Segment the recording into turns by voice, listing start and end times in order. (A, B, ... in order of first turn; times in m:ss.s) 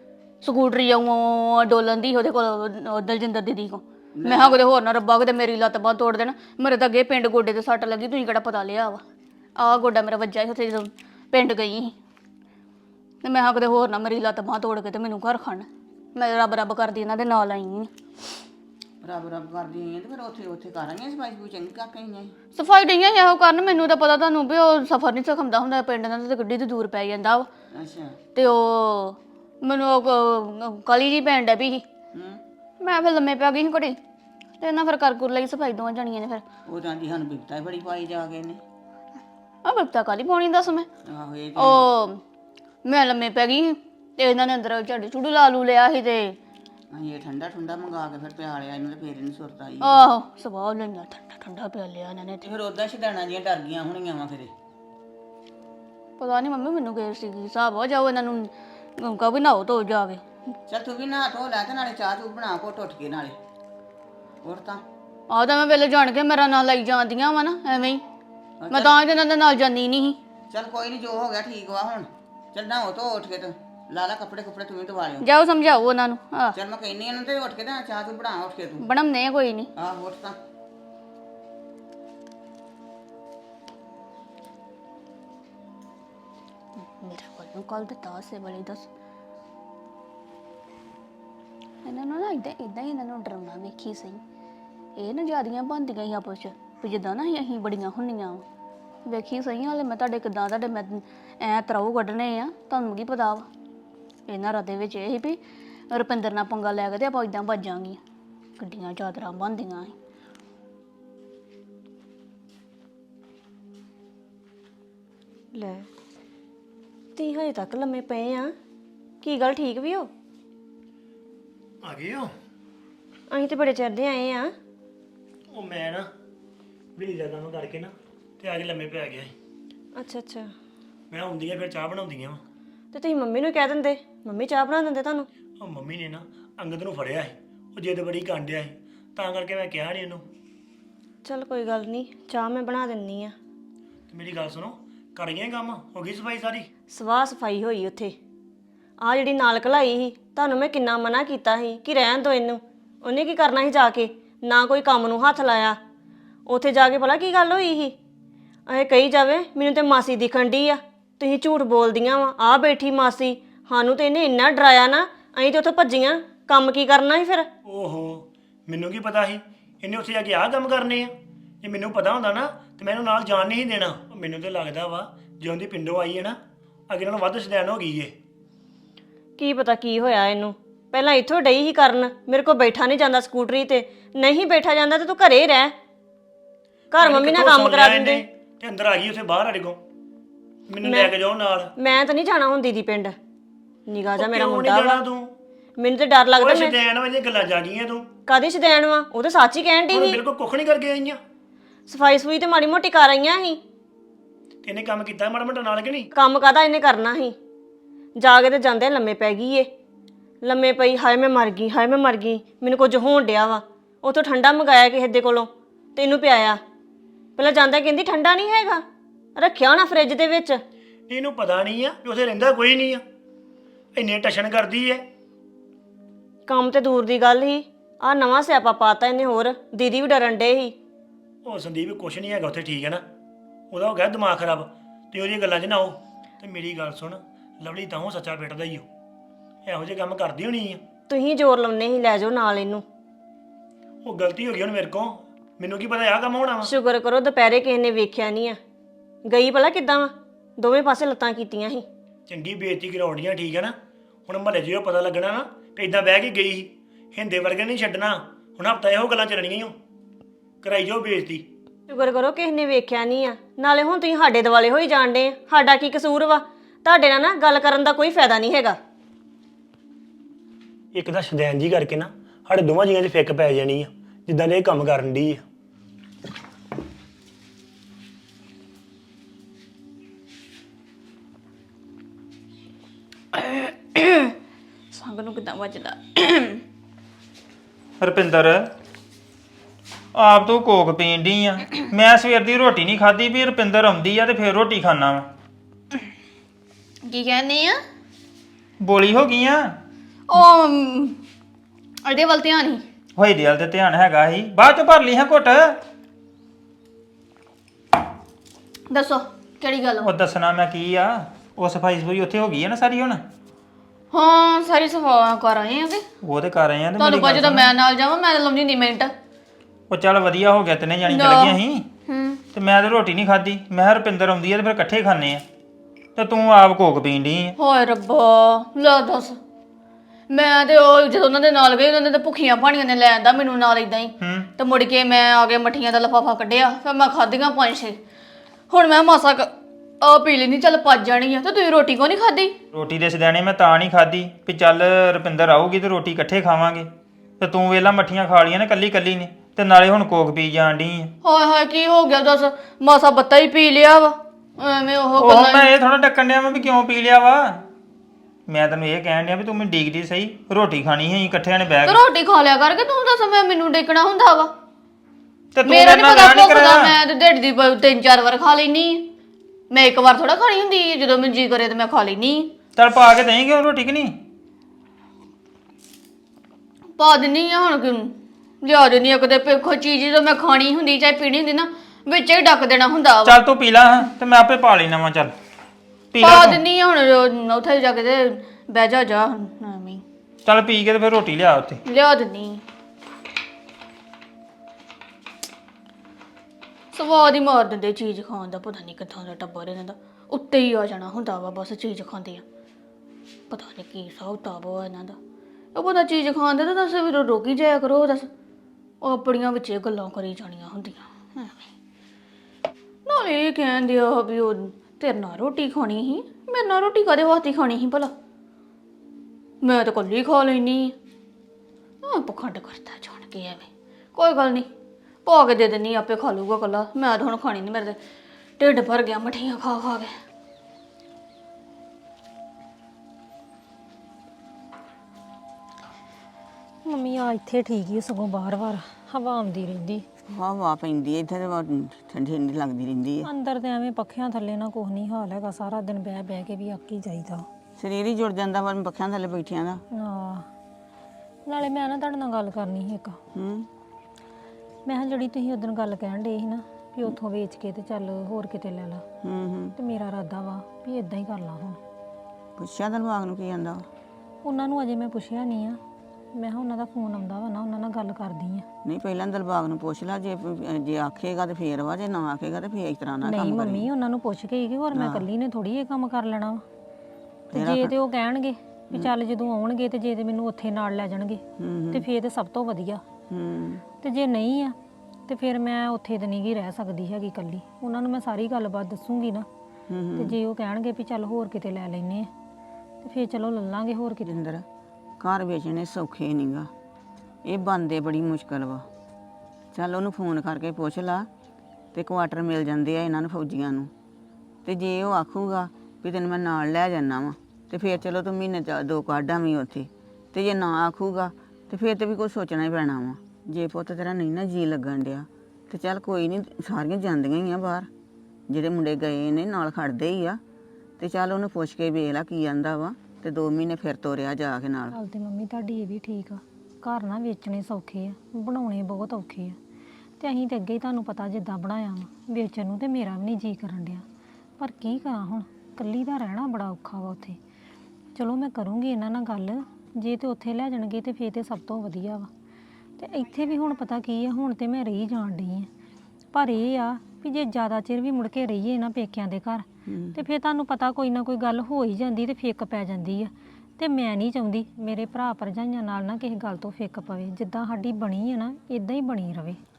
0:00.4-0:09.0 A
0:04.2-0:04.6 B
0:09.6-0:11.9 A
0:13.2-0:17.9 A
0:19.0-0:22.3 B
0:22.6-0:27.5 A
0:27.7-0:28.2 B
0:28.3-0:31.8 A
0:32.1-0:32.4 B
0:32.8-0:34.0 A
0:34.6-0:36.4 A
0:36.7-0:38.6 B
0:39.6-0:40.9 A
0:41.0-0:41.8 B
0:41.6-0:42.2 A
0:42.8-0:46.3 A
0:46.9-0:50.1 B
0:49.8-0:52.4 A
0:52.4-0:54.5 B
0:56.2-1:00.2 A
1:00.7-1:03.4 B
1:04.4-1:04.8 B
1:05.3-1:08.0 A
1:08.6-1:09.0 B
1:08.7-1:10.2 A
1:10.5-1:15.2 B
1:15.2-1:16.6 A
1:16.5-1:18.8 B
1:18.8-1:19.7 A
1:19.8-1:20.4 B
1:26.8-1:28.8 A
1:31.8-1:34.2 A
1:35.0-1:38.4 A
1:39.1-1:43.5 A
1:44.3-1:45.4 A
1:45.9-1:48.0 A
1:48.6-1:49.9 A
1:55.5-1:55.9 C
1:57.2-1:58.5 C
1:59.2-2:00.1 C
2:01.8-2:02.3 D
2:03.3-2:04.5 C
2:05.5-2:06.1 D
2:07.0-2:09.3 D
2:09.9-2:10.5 C
2:11.1-2:12.4 D
2:12.9-2:15.3 C
2:15.6-2:20.2 D
2:21.2-2:23.3 C
2:24.1-2:26.7 D
2:26.9-2:28.1 C
2:29.0-2:35.8 C
2:36.4-2:37.9 C
2:38.7-2:47.5 C
2:47.6-2:56.4 D
2:56.9-2:58.1 D
2:59.4-3:05.7 C
3:06.9-3:08.2 C
3:07.0-3:09.8 D
3:10.7-3:11.7 D
3:10.8-3:11.1 C
3:11.8-3:13.2 C
3:13.9-3:15.1 C
3:14.1-3:15.3 D
3:15.8-3:16.8 C
3:16.4-3:18.1 D
3:18.2-3:20.2 C
3:19.9-3:21.2 D
3:21.9-3:23.6 C
3:24.6-3:26.1 D
3:26.1-3:27.4 C
3:28.2-3:29.7 C
3:30.4-3:36.6 C
3:37.4-3:38.8 C
3:39.4-3:40.6 C
3:41.1-3:43.0 D
3:43.9-3:45.0 D
3:46.5-3:50.7 C
3:51.4-3:53.0 D
3:53.7-3:58.9 D
3:59.6-4:00.8 D
4:01.1-4:02.8 C
4:04.0-4:06.7 D
4:06.6-4:08.6 C
4:09.2-4:11.8 C
4:12.3-4:13.8 D
4:14.3-4:19.8 D
4:20.6-4:21.4 D
4:21.9-4:28.8 C
4:30.9-4:35.4 D
4:43.4-4:44.3 A
4:44.9-4:46.6 A
4:48.0-4:48.6 E
4:50.1-4:55.2 E
4:57.0-4:57.8 A
4:58.8-4:59.6 E
5:00.3-5:01.2 A
5:02.0-5:02.8 A
5:03.2-5:05.8 E
5:08.9-5:10.1 A
5:10.0-5:13.2 E
5:14.1-5:16.0 A
5:16.2-5:17.7 E
5:17.0-5:19.1 A
5:19.9-5:21.8 E
5:21.0-5:22.4 A
5:22.5-5:25.4 E
5:26.2-5:27.5 E
5:27.6-5:29.4 A
5:30.3-5:38.0 A
5:34.2-5:34.5 E
5:38.7-5:39.5 A
5:40.0-5:42.5 A
5:42.7-5:46.9 E
5:47.4-5:51.1 E
5:51.2-5:55.7 A
5:55.2-5:57.6 E
5:58.5-6:02.0 E
6:01.8-6:04.5 A
6:05.5-6:06.9 E
6:05.6-6:09.1 A
6:09.7-6:12.5 A
6:12.8-6:14.1 E
6:17.0-6:23.4 A
6:23.2-6:25.3 E
6:26.1-6:26.6 E
6:26.2-6:30.0 A
6:30.4-6:31.8 E
6:31.8-6:32.6 A
6:36.9-6:42.4 A
6:43.5-6:45.2 A
6:45.7-6:48.3 A
6:49.0-6:51.6 A
6:53.0-6:58.1 A
6:59.6-7:00.9 A
7:02.0-7:04.7 A
7:05.2-7:08.0 A
7:08.6-7:10.1 A
7:16.8-7:20.0 F
7:20.3-7:23.3 B
7:23.2-7:27.5 F
7:27.8-7:29.8 B
7:29.9-7:30.5 F
7:31.4-7:33.2 F
7:33.3-7:33.7 B
7:34.8-7:39.0 F
7:39.2-7:39.7 B
7:39.8-7:41.8 F
7:42.6-7:43.9 B
7:44.4-7:45.8 F
7:46.3-7:48.6 F
7:48.8-7:53.9 B
7:53.2-7:56.6 F
7:54.9-7:55.2 B
7:57.5-7:57.9 B
7:57.5-8:03.0 F
8:01.6-8:02.0 B
8:03.3-8:03.8 B
8:04.0-8:04.8 F
8:05.3-8:09.5 F
8:09.9-8:10.4 B
8:10.2-8:12.3 F
8:13.0-8:14.3 F
8:14.2-8:14.6 B
8:15.2-8:16.7 B
8:17.4-8:18.8 B
8:19.7-8:21.3 B
8:21.9-8:23.9 B
8:24.6-8:37.9 B
8:38.5-8:40.4 B
8:41.0-8:45.0 B
8:44.9-8:49.6 F
8:50.2-8:54.0 F
8:54.6-8:57.4 F
8:58.1-9:02.3 F
9:03.0-9:05.7 F
9:06.3-9:19.6 F
9:09.8-9:10.2 B